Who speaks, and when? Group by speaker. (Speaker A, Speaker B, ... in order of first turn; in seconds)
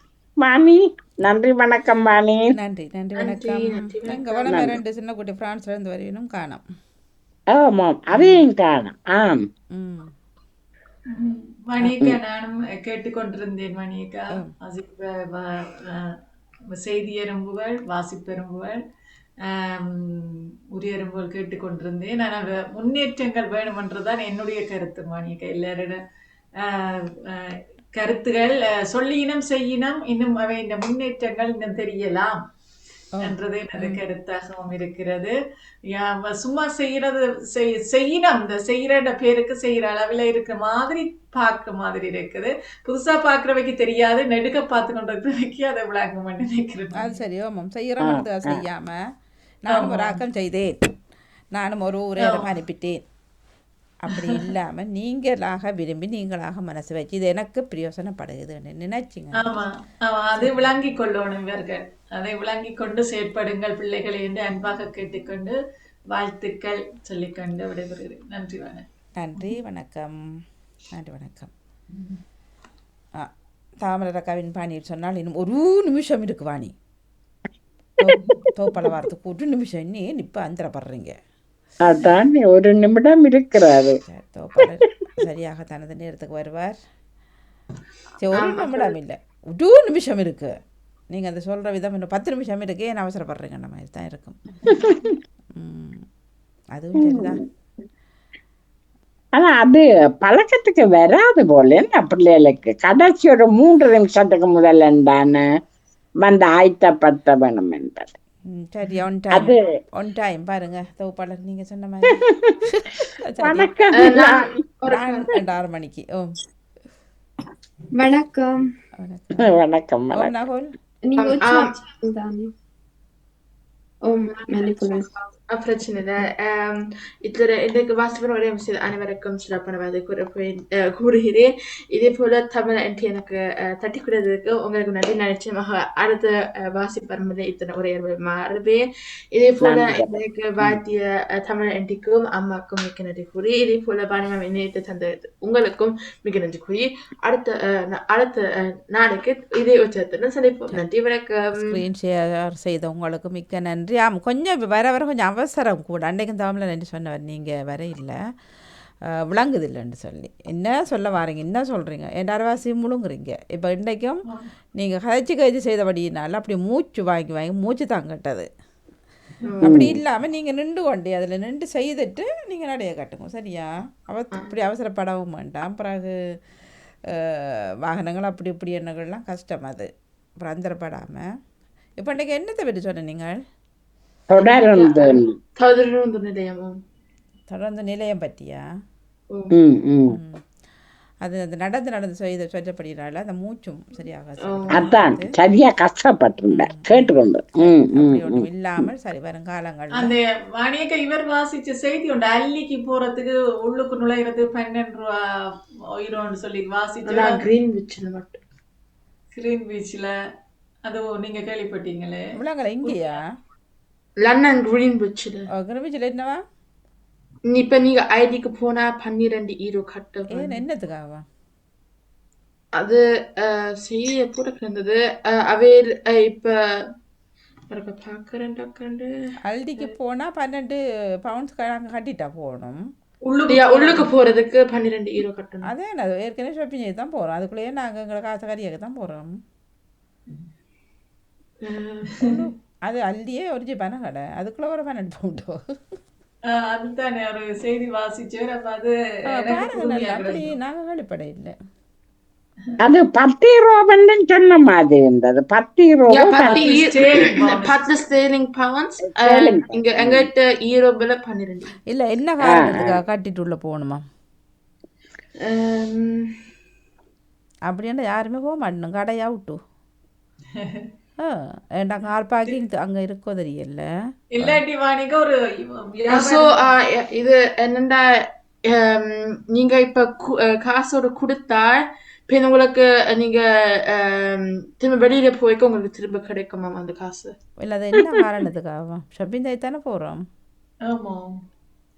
Speaker A: 0.4-2.4, 7.5-9.4, 11.8-12.2, 48.0-48.6, 81.8-84.0, 94.7-95.1, 97.0-97.3, 99.3-105.4, 106.2-108.1, 109.3-109.6, 113.4-114.4, 119.4-120.4, 139.6-140.7, 169.6-169.9, 184.3-185.3, 189.5-190.2, 194.7-198.4, 252.8-256.6, 259.2-260.3, 262.4-263.0
Speaker B: 2.6-6.6, 8.1-8.4, 9.7-10.1, 33.1-34.0, 47.0-49.0, 49.6-50.7, 51.5-53.0, 54.0-59.5, 69.2-70.1, 70.9-71.5, 73.8-76.7, 78.0-81.1, 84.0-86.8, 88.2-90.5, 91.1-94.6, 95.5-96.0, 96.7-97.4, 108.5-113.7, 114.9-116.3, 119.0-119.5, 120.1-120.7, 151.5-158.2, 159.3-164.2, 164.8-168.5, 169.6-176.1, 177.9-179.9, 180.4-181.2, 182.0-183.3, 187.5-188.6, 190.1-190.4, 191.2-195.2, 196.5-197.1, 197.6-200.1, 212.3-213.2, 215.5-216.4, 220.3-221.2, 229.4-232.8, 235.7-239.3, 242.2-245.6, 249.3-251.5, 261.9-264.0, 267.7-269.6, 271.2-273.9, 287.6-290.2
Speaker C: 3.2-4.7, 88.3-88.9, 113.9-115.3, 121.2-121.7, 125.5-151.8, 169.5-169.8, 184.4-186.8, 194.4-194.8, 207.1-208.4, 214.2-215.4, 217.5-220.5, 222.8-226.5, 227.7-229.1, 233.5-235.7, 241.6-242.1, 256.1-261.7, 265.4-266.3, 276.1-278.0, 278.7-287.3
Speaker D: 11.1-16.1, 16.7-18.8, 19.4-26.0, 26.6-32.4, 33.2-35.4, 35.9-47.1, 49.7-50.2, 52.2-52.5, 59.4-65.6, 66.1-68.8, 200.0-205.2, 206.0-207.4, 209.3-210.1, 210.9-212.2, 233.3-234.1, 246.5-250.5, 256.5-257.8, 270.6-270.9, 274.4-276.7, 290.9-291.4
Speaker E: 118.0-118.6, 121.0-122.5, 124.0-125.1